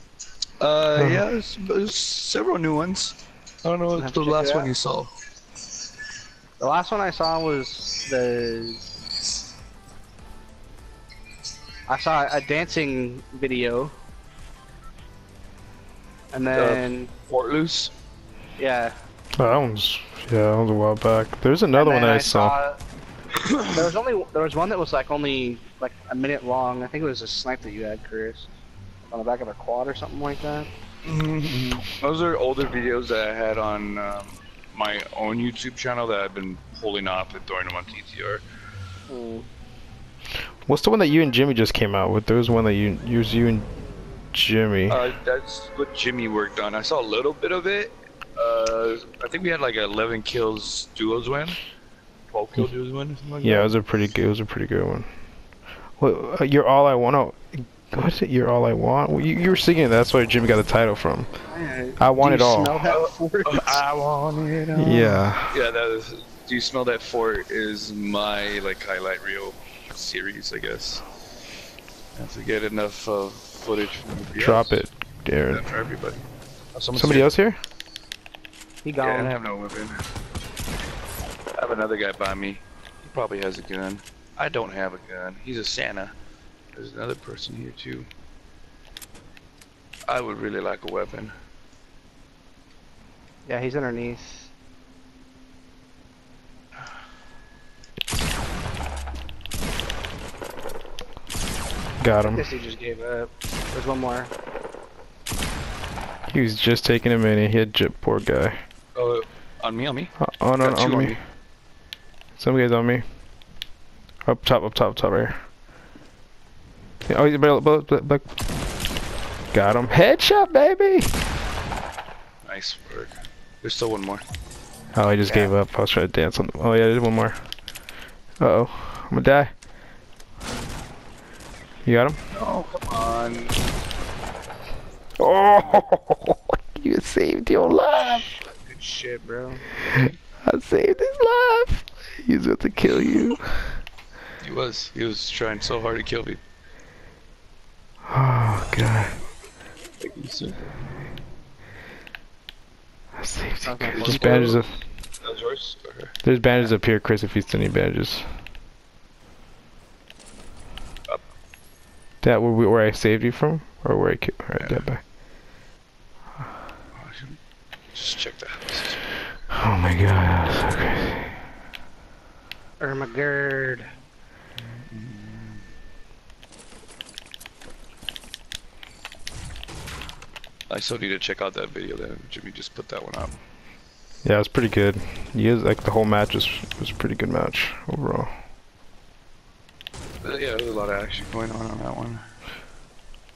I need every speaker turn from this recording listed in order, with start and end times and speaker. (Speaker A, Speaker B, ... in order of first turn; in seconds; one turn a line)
Speaker A: 0.6-5.1
Speaker B: 0.9-1.3
Speaker C: 4.0-4.7
Speaker C: 6.6-8.8
Speaker C: 11.9-13.9
Speaker C: 16.3-17.1
Speaker A: 16.5-17.9
Speaker C: 18.6-18.9
Speaker B: 19.4-22.6
Speaker C: 21.7-22.8
Speaker A: 23.4-23.9
Speaker C: 23.7-28.5
Speaker C: 29.0-30.7
Speaker A: 31.0-38.4
Speaker C: 39.1-39.5
Speaker B: 40.6-43.7
Speaker B: 44.3-45.0
Speaker A: 44.9-51.6
Speaker A: 52.3-53.7
Speaker B: 53.4-55.1
Speaker B: 56.0-61.3
Speaker C: 61.5-63.8
Speaker B: 62.0-62.8
Speaker A: 62.8-71.0
Speaker B: 64.7-65.6
Speaker A: 72.1-74.8
Speaker B: 74.3-75.7
Speaker A: 75.5-76.2
Speaker A: 76.7-77.3
Speaker B: 76.9-77.6
Speaker C: 78.8-79.3
Speaker A: 79.0-80.0
Speaker A: 81.6-86.1
Speaker A: 86.7-88.1
Speaker A: 90.1-91.3
Speaker C: 93.5-94.5
Speaker B: 102.0-102.5
Speaker C: 102.2-104.3
Speaker B: 106.3-108.6
Speaker A: 108.9-111.2
Speaker B: 110.2-111.2
Speaker B: 112.3-113.0
Speaker B: 114.2-115.3
Speaker B: 117.1-118.2
Speaker B: 119.5-121.2
Speaker A: 122.4-124.2
Speaker B: 124.9-127.4
Speaker C: 125.2-125.5
Speaker B: 128.4-129.5
Speaker B: 131.8-132.2
Speaker A: 132.3-133.5
Speaker B: 135.2-138.3
Speaker C: 138.6-139.7
Speaker B: 139.9-143.8
Speaker A: 144.4-146.4
Speaker B: 148.1-149.2
Speaker A: 150.0-150.7
Speaker B: 153.2-154.8
Speaker C: 153.6-154.6
Speaker A: 153.9-154.6
Speaker A: 155.2-156.2
Speaker B: 156.2-158.3
Speaker B: 162.2-165.0
Speaker A: 164.6-164.9
Speaker A: 166.9-167.4
Speaker A: 167.9-169.1
Speaker B: 169.5-171.3
Speaker C: 172.8-173.9
Speaker A: 174.6-175.7
Speaker A: 180.7-183.3
Speaker B: 184.2-188.3
Speaker A: 190.2-192.2